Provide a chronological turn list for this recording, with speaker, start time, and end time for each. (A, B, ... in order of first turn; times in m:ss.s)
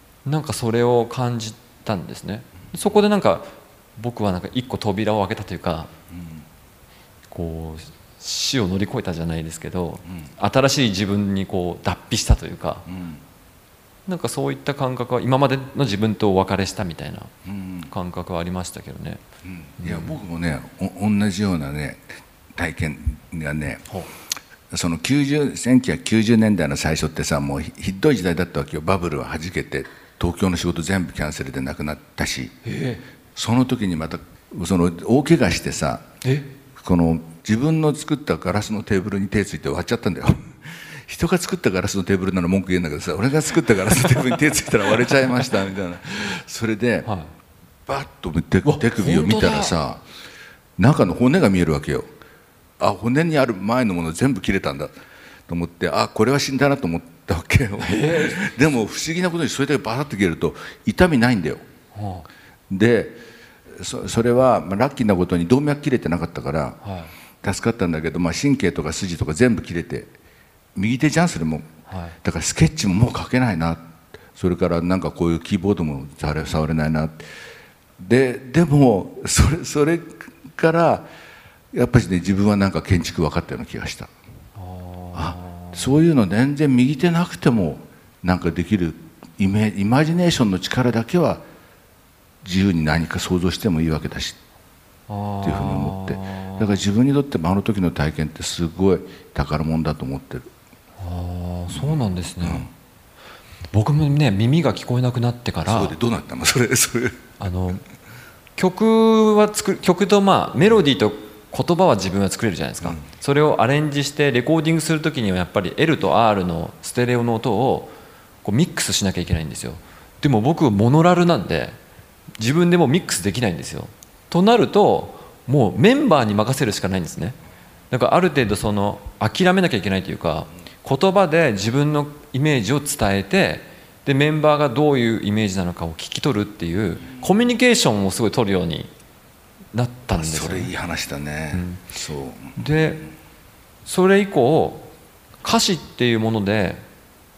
0:00.2-0:05.9 A
0:07.3-0:12.9 A
0:12.9-0:13.2 B
0:14.0-0:17.3 A
0:17.5-0:17.9 B
0:17.8-0:19.2 A
0:19.6-0:23.9 B
0:19.8-0:20.2 A
0:24.7-0:32.6 B
0:32.6-0:33.0 A
0:33.4-0:36.1 B
0:36.2-0:36.5 A
0:36.7-0:47.1 B
0:47.0-0:47.3 A
0:47.9-0:50.0 B
0:48.6-0:49.8 A
0:50.8-0:52.1 B
0:52.8-0:54.9 B
0:55.5-1:01.6 B
0:57.8-0:58.5 A
1:01.9-1:02.3 A
1:02.7-1:03.2 B
1:03.7-1:06.8 B
1:06.8-1:07.1 A
1:07.4-1:10.1 B
1:10.8-1:11.7 B
1:11.9-1:12.2 A
1:12.2-1:17.2 B
1:18.0-1:21.1 B
1:21.7-1:24.1 B
1:24.6-1:25.9 A
1:25.1-1:31.4 B
1:32.4-1:34.4 B
1:35.1-1:36.8 A
1:35.4-1:40.5 B
1:41.0-1:42.7 A
1:41.7-1:42.7 B
1:43.7-1:46.0 A
1:45.6-1:47.2 B
1:47.4-1:47.8 A
1:48.6-1:57.9 A
1:58.4-2:01.8 A
2:02.4-2:07.4 A
2:07.9-2:18.9 A
2:19.7-2:20.7 A
2:20.1-2:22.6 B
2:21.5-2:21.9 A
2:22.6-2:23.1 A
2:23.8-2:26.8 A